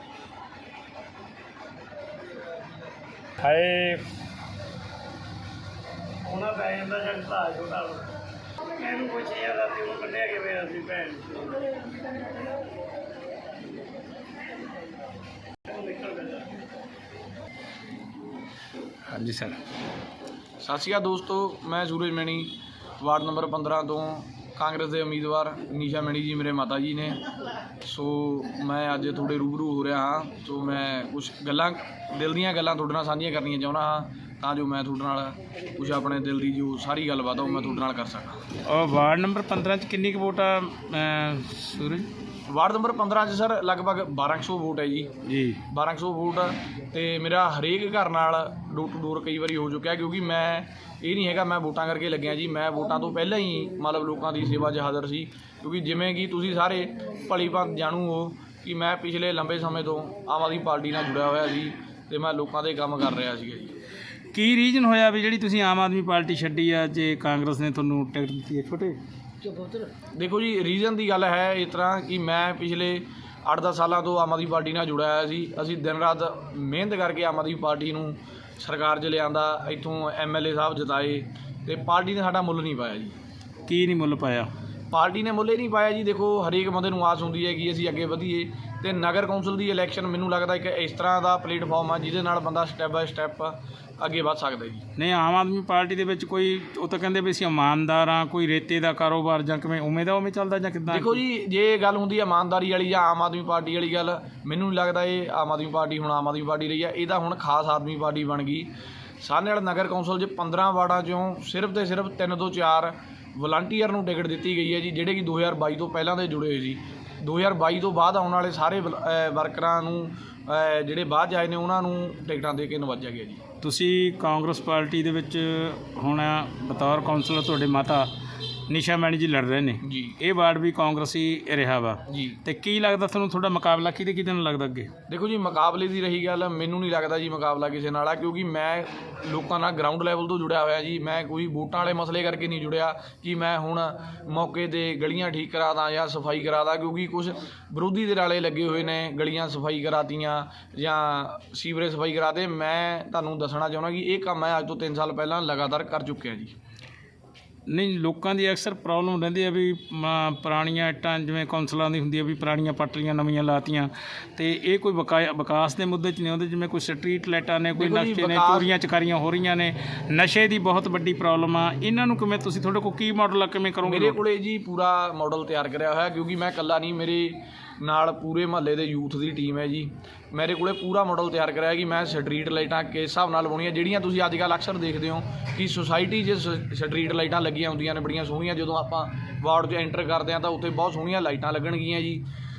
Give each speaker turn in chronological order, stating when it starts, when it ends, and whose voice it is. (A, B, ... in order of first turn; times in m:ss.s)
0:03.4-0:04.1 A
0:06.2-0:08.1 B
0:08.8-0:11.5 B
0:15.7-0:16.5 B
0:19.1-0:19.6 A
0:20.6-0:27.2 C
0:27.8-0:38.5 C
0:38.7-0:42.1 A
0:42.5-0:45.1 C
0:45.2-0:45.6 A
0:45.7-1:03.7 C
1:04.3-1:09.0 A
1:10.1-1:23.2 C
1:23.7-1:24.5 A
1:24.9-1:34.8 C
1:35.0-1:41.2 A
1:40.9-2:03.4 C
2:03.6-2:08.1 A
2:08.7-2:14.9 A
2:09.8-2:10.2 C
2:12.1-2:12.4 C
2:15.1-2:36.5 C
2:37.7-2:54.2 A
2:47.8-2:48.7 C
2:53.8-3:12.2 C